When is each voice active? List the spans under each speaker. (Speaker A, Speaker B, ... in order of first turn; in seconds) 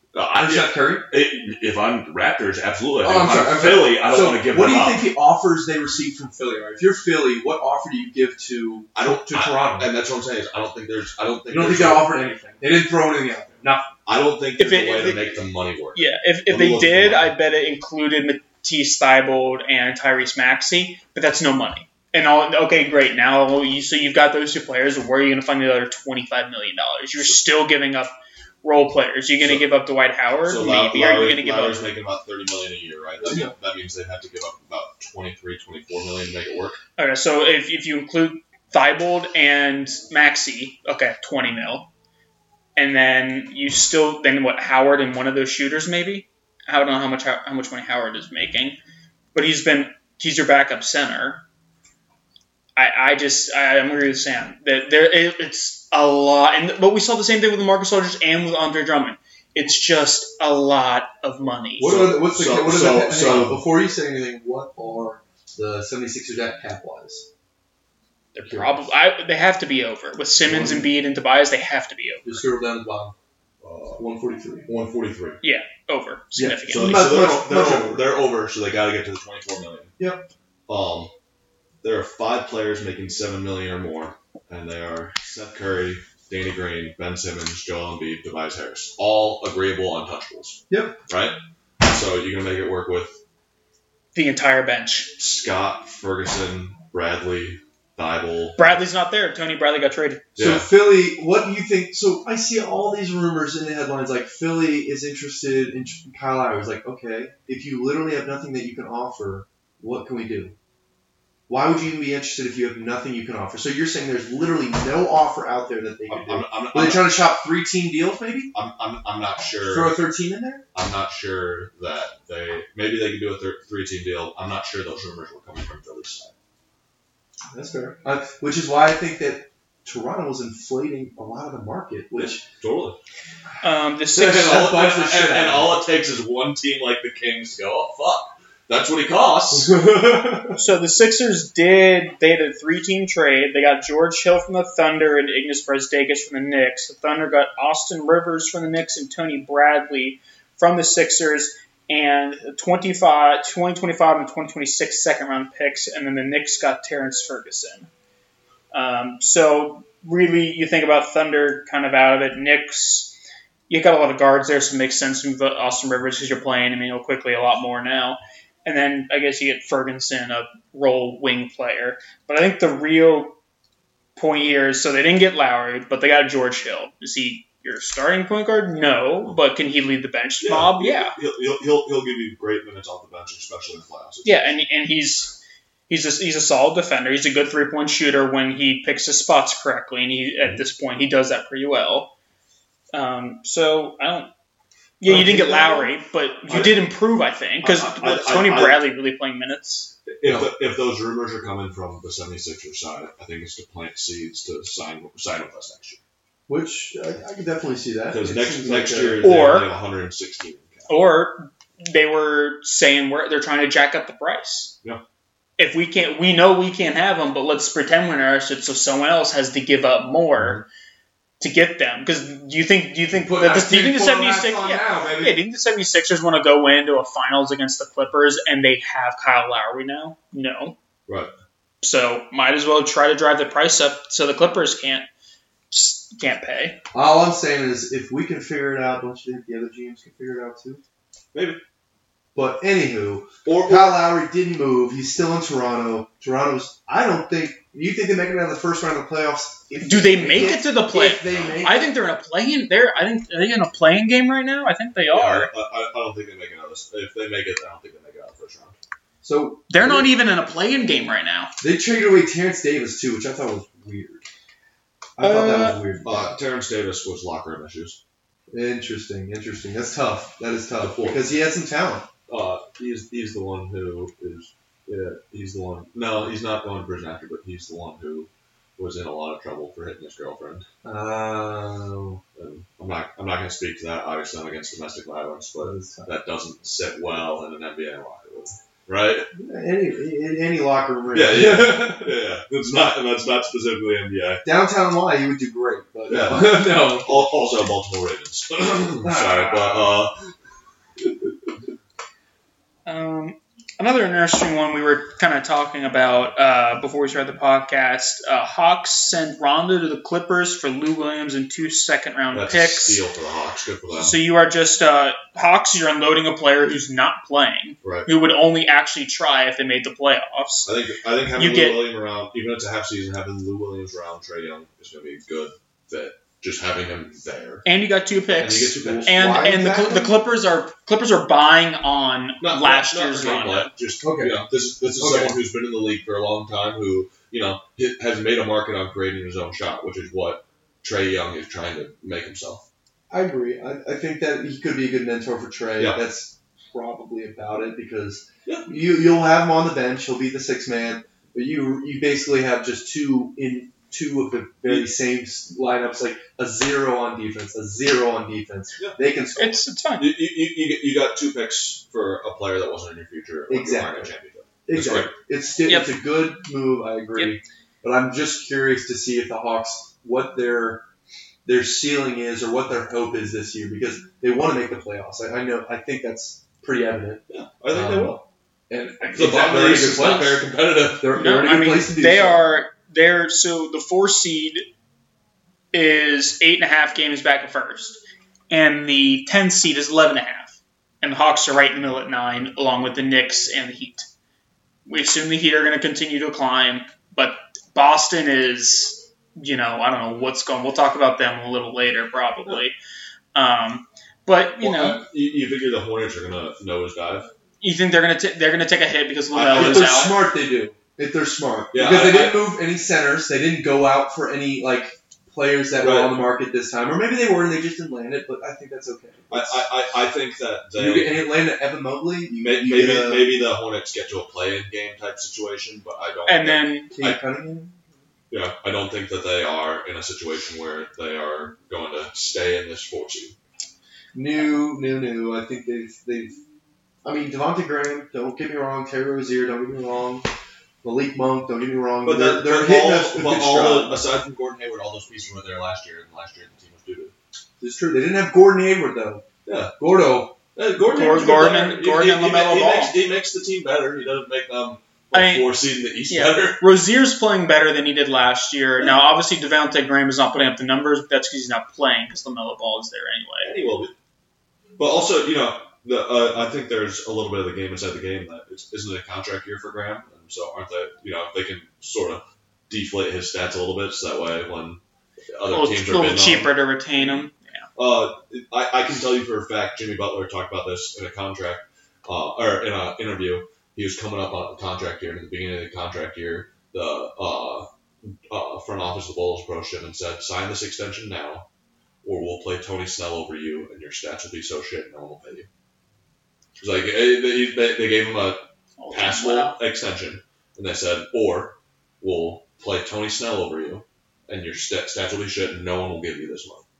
Speaker A: 0.1-5.1, 8.9-12.2, 14.1-17.3, 29.4-29.7, 30.4-36.8, 61.8-63.6, 73.6-74.0, 74.7-75.4, 76.7-79.9, 80.7-81.1, 81.8-93.2, 95.2-98.6, 100.3-100.7, 116.1-117.2, 118.5-120.0, 120.7-126.3, 132.1-133.0, 134.2-139.7, 180.4-184.5, 196.5-196.8, 197.6-198.8, 200.1-206.0, 208.1-210.9, 220.4-220.6, 231.1-231.3, 241.3-241.6, 243.4-244.0, 255.1-258.8, 266.0-268.0, 270.7-271.2, 272.3-280.7, 282.4-289.3, 291.1-294.4, 296.1-300.1, 312.3-314.1, 317.8-318.1, 320.6-327.6, 328.4-329.2, 332.4-342.6, 345.8-346.0, 354.6-354.9, 360.0-365.1, 377.3-378.2, 379.1-381.0, 404.6-407.3, 409.3-410.1, 411.7-412.5, 415.8-416.2, 419.3-421.2, 422.4-427.2, 428.3-433.4, 442.0-447.1, 449.4-449.7, 450.5-456.6, 463.4-463.9, 464.8-474.8, 475.3-476.6, 477.8-491.4, 492.0-495.5, 496.6-506.6
Speaker B: 0.4-1.1, 3.0-9.9, 11.5-13.9, 33.2-33.5, 61.8-67.3, 68.4-68.9, 70.5-70.9, 72.2-73.1, 74.0-74.7, 76.3-78.0, 80.0-80.3, 90.7-91.0, 100.4-110.5, 111.5-118.5, 119.6-120.6, 127.5-132.4, 134.1-135.8, 139.5-140.6, 195.1-195.9, 200.2-200.5, 206.5-209.2, 223.2-225.4, 236.9-240.8, 242.3-251.9, 259.2-260.1, 261.6-264.2, 265.2-266.3, 268.5-272.1, 280.8-282.2, 285.6-286.1, 289.3-292.1, 294.4-297.2, 299.0-300.0, 328.8-330.2, 334.0-334.4, 335.0-335.4, 343.1-359.6, 363.5-364.1, 364.6-370.8, 371.4-382.4, 409.5-419.6, 420.7-423.3, 426.9-427.8, 434.1-436.4, 437.0-440.3, 440.8-444.1, 447.6-449.2, 449.8-450.4
Speaker C: 14.6-15.3, 15.9-31.9, 37.0-41.9, 42.8-48.8, 49.3-51.4, 52.8-61.9, 68.3-72.4, 75.4-77.0, 94.1-95.1, 98.6-100.3, 133.6-134.7, 140.6-157.9, 158.7-163.2, 163.7-173.4, 174.2-181.1, 184.2-192.1, 192.9-194.3, 195.0-199.9, 209.2-209.7, 210.9-214.7, 215.6-220.6, 221.4-230.8, 231.8-235.1, 235.7-236.8, 249.8-255.5, 259.7-261.5, 265.2-265.8, 302.8-313.0, 313.9-320.7, 321.4-321.9, 327.6-333.7, 359.4-360.1, 365.6-365.9, 381.1-384.6, 385.7-394.1, 394.9-402.7, 403.3-405.0, 407.6-410.1, 426.3-426.9, 450.9-452.9, 455.1-455.5, 456.1-463.5, 475.5-477.7, 498.8-499.6